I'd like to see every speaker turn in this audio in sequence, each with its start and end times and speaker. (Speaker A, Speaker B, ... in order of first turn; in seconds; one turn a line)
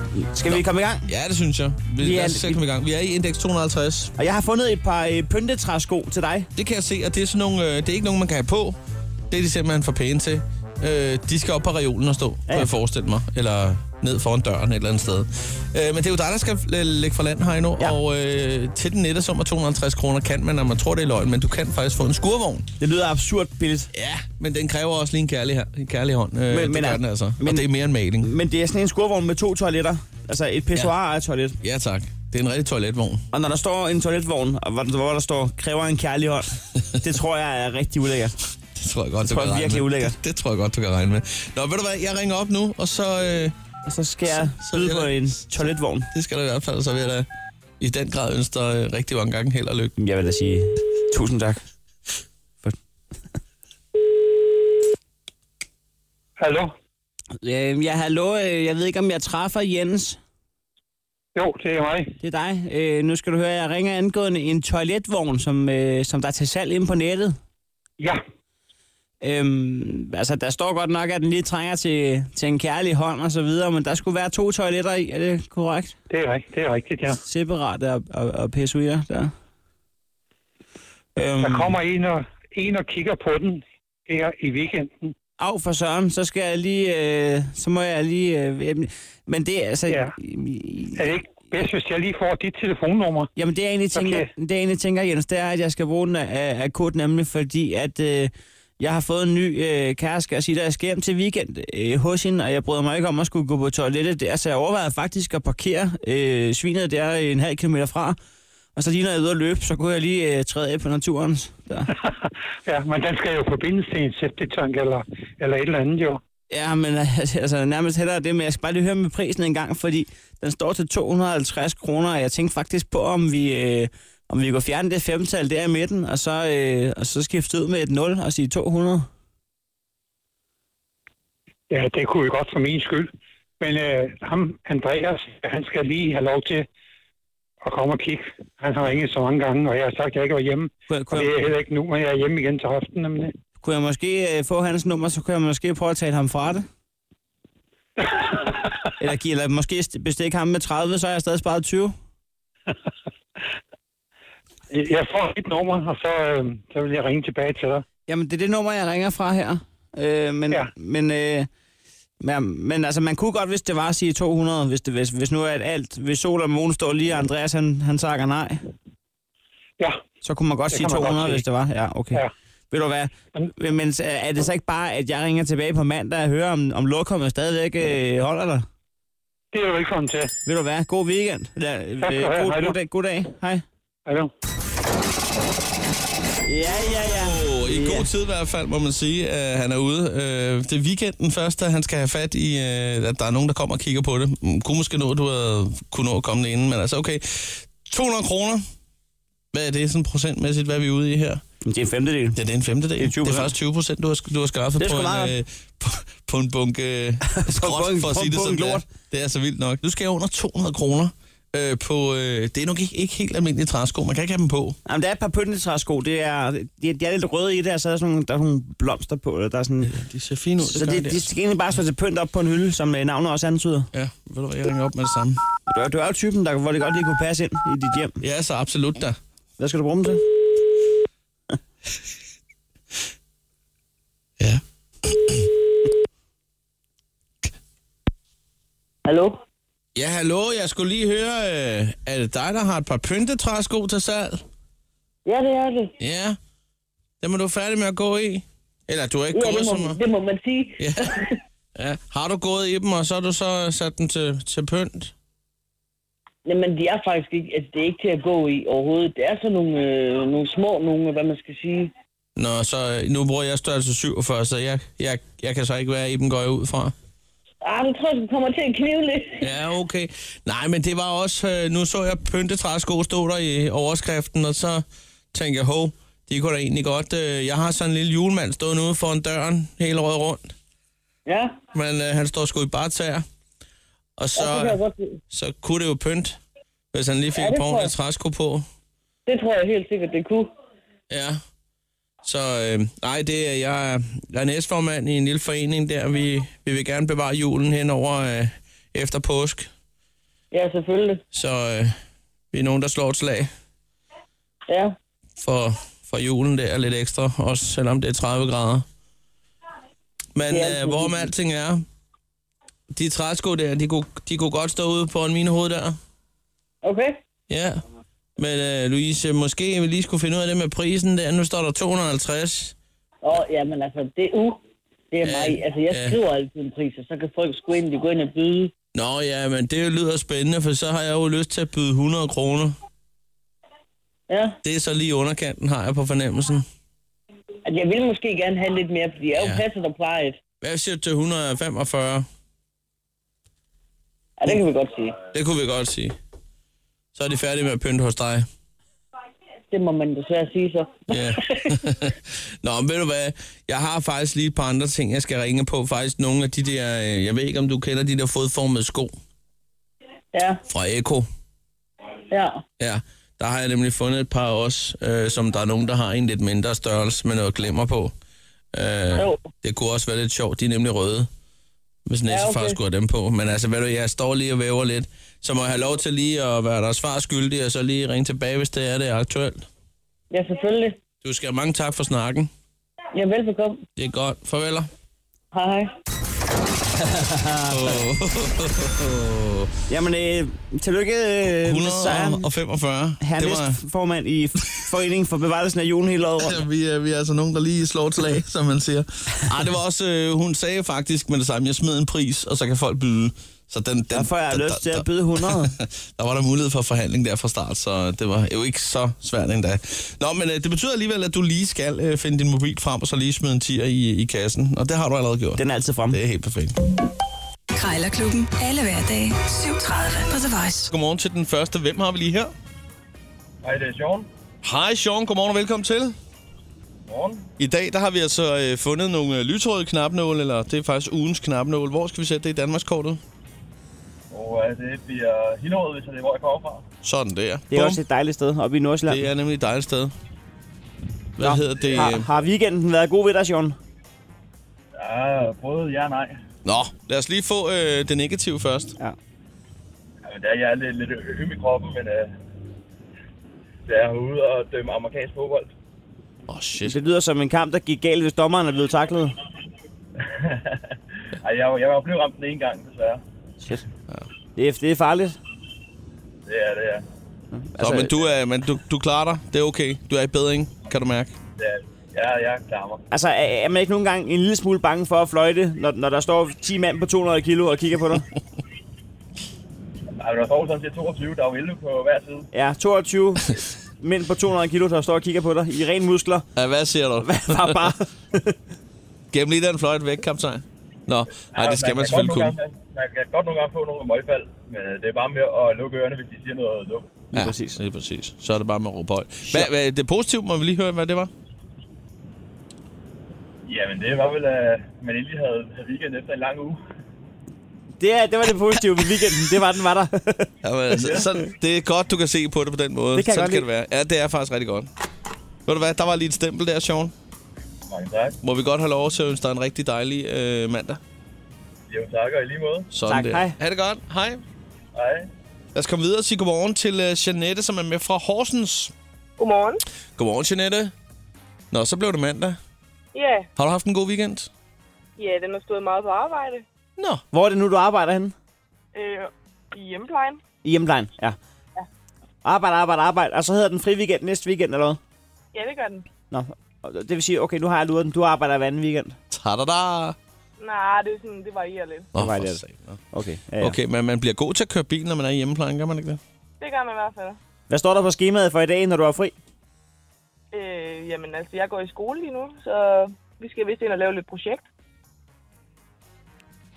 Speaker A: 0.1-1.1
Speaker B: 0.5-4.1
Speaker A: 2.0-2.6
Speaker A: 4.2-6.5
Speaker B: 6.6-8.8
Speaker B: 9.3-22.7
Speaker A: 22.8-23.9
Speaker B: 23.9-28.3
Speaker A: 26.5-27.7
Speaker A: 28.2-31.6
Speaker B: 31.6-33.2
Speaker A: 33.3-36.5
Speaker A: 37.0-38.4
Speaker B: 38.8-43.5
Speaker A: 39.2-40.2
Speaker A: 43.9-46.1
Speaker B: 44.3-45.2
Speaker B: 46.1-47.3
Speaker B: 47.8-49.9
Speaker A: 50.0-51.6
Speaker C: 56.4-56.7
Speaker A: 57.4-60.2
Speaker C: 61.4-62.1
Speaker A: 62.2-67.4
Speaker A: 69.2-76.0
Speaker C: 76.1-77.2
Speaker A: 77.2-79.3
Speaker A: 81.2-81.8
Speaker C: 81.4-85.1
Speaker A: 85.4-91.0
Speaker C: 89.9-90.1
Speaker C: 91.0-93.3
Speaker A: 93.4-108.2
Speaker C: 94.0-94.3
Speaker A: 108.8-111.9
Speaker C: 112.0-116.2
Speaker A: 116.5-129.1
Speaker C: 131.7-136.7
Speaker C: 137.6-143.3
Speaker A: 140.9-141.3
Speaker A: 143.6-146.7
Speaker C: 148.0-148.6
Speaker A: 149.0-151.9
Speaker C: 154.7-157.8
Speaker A: 158.1-161.5
Speaker A: 162.2-168.6
Speaker A: 170.2-178.7
Speaker C: 170.7-171.4
Speaker C: 179.5-180.3
Speaker A: 180.5-183.6
Speaker C: 182.0-182.8
Speaker A: 186.5-188.1
Speaker B: 186.9-198.7
Speaker B: 199.5-201.4
Speaker A: 201.7-202.4
Speaker B: 202.4-214.8
Speaker A: 203.0-203.5
Speaker A: 204.8-205.3
Speaker A: 207.3-208.8
Speaker A: 214.9-220.0
Speaker B: 219.9-221.3
Speaker A: 220.6-223.9
Speaker B: 223.9-225.4
Speaker A: 225.7-228.2
Speaker B: 228.2-229.2
Speaker A: 229.6-230.2
Speaker B: 234.4-235.5
Speaker D: 239.1-239.4
Speaker B: 239.9-244.4
Speaker D: 245.3-245.9
Speaker B: 246.0-246.4
Speaker B: 247.2-250.0
Speaker D: 249.3-251.4
Speaker B: 250.8-251.2
Speaker B: 251.8-255.1
Speaker D: 256.4-261.9
Speaker B: 262.4-266.9
Speaker D: 267.6-269.5
Speaker B: 269.4-280.5
Speaker D: 281.3-281.6
Speaker B: 281.7-283.3
Speaker B: 284.2-284.8
Speaker D: 284.4-285.2
Speaker B: 285.3-286.4
Speaker B: 286.9-288.7
Speaker D: 287.3-287.9
Speaker D: 289.3-290.5
Speaker B: 291.1-291.4
Speaker B: 292.2-299.7
Speaker D: 300.5-301.2
Speaker B: 301.3-302.0
Speaker B: 302.5-303.5
Speaker D: 304.7-304.9
Speaker B: 305.4-308.9
Speaker B: 310.4-311.9
Speaker D: 310.5-311.3
Speaker B: 312.9-316.0
Speaker D: 316.8-317.2
Speaker B: 317.5-317.8
Speaker B: 318.4-322.8
Speaker D: 323.2-324.6
Speaker D: 325.1-328.7
Speaker B: 325.2-326.2
Speaker B: 328.9-332.8
Speaker D: 334.3-334.6
Speaker B: 334.6-336.7
Speaker D: 337.7-340.4
Speaker B: 339.3-339.6
Speaker B: 340.6-342.3
Speaker D: 344.4-345.2
Speaker B: 345.3-346.2
Speaker B: 347.1-348.5
Speaker D: 349.7-351.7
Speaker B: 351.1-359.1
Speaker D: 360.3-360.6
Speaker B: 360.7-361.3
Speaker D: 362.3-362.6
Speaker B: 362.8-368.1
Speaker B: 368.7-371.3
Speaker D: 369.1-369.5
Speaker B: 372.1-379.7
Speaker D: 372.3-372.8
Speaker D: 380.3-381.0
Speaker B: 381.2-382.5
Speaker D: 383.1-383.9
Speaker B: 384.0-384.9
Speaker D: 385.5-385.9
Speaker A: 387.0-388.0
Speaker B: 387.7-389.7
Speaker A: 389.9-392.5
Speaker B: 391.6-393.8
Speaker A: 393.2-396.6
Speaker B: 396.4-416.8
Speaker A: 404.1-405.7
Speaker A: 415.6-416.2
Speaker E: 417.7-420.9
Speaker B: 420.9-422.5
Speaker F: 423.6-424.3
Speaker B: 424.6-426.2
Speaker F: 427.1-427.5
Speaker B: 427.6-433.2
Speaker F: 434.3-436.9
Speaker B: 437.0-438.0
Speaker A: 437.7-439.2
Speaker B: 439.1-440.1
Speaker B: 441.4-442.3
Speaker A: 441.4-443.8
Speaker F: 444.9-446.4
Speaker B: 446.6-448.9
Speaker F: 450.2-452.3
Speaker F: 453.9-455.7
Speaker B: 456.5-457.0
Speaker A: 456.8-459.4
Speaker F: 460.2-463.2
Speaker A: 464.6-465.4
Speaker F: 466.5-467.1
Speaker A: 467.5-468.2
Speaker B: 467.8-471.4
Speaker F: 471.6-473.0
Speaker A: 473.1-478.3
Speaker F: 480.2-482.5
Speaker A: 482.5-486.5
Speaker B: 486.6-487.9
Speaker A: 487.2-488.6
Speaker B: 489.3-492.6
Speaker F: 491.4-497.2
Speaker A: 497.3-497.8
Speaker B: 497.3-501.3
Speaker F: 503.7-506.8
Speaker A: 508.0-510.5
Speaker B: 510.6-514.9
Speaker F: 510.9-511.3
Speaker A: 513.1-513.7
Speaker B: 515.7-517.1
Speaker F: 517.9-518.4
Speaker B: 518.4-521.0
Speaker F: 521.9-522.9
Speaker B: 522.9-524.4
Speaker A: 523.1-523.6
Speaker F: 524.9-525.3
Speaker B: 525.8-528.9
Speaker G: 529.4-529.8
Speaker B: 530.2-530.9
Speaker B: 531.7-532.6
Speaker G: 533.1-533.5
Speaker B: 533.6-534.5
Speaker G: 535.2-536.6
Speaker B: 537.0-537.2
Speaker A: 537.3-538.4
Speaker G: 538.9-540.4
Speaker A: 540.6-541.4
Speaker A: 542.4-545.0
Speaker G: 545.5-546.1
Speaker A: 546.3-549.2
Speaker B: 549.3-550.2
Speaker G: 550.6-552.1
Speaker B: 552.1-553.0
Speaker A: 552.2-553.8
Speaker B: 553.6-556.2
Speaker G: 556.6-557.4
Speaker A: 557.7-559.4
Speaker G: 560.5-564.6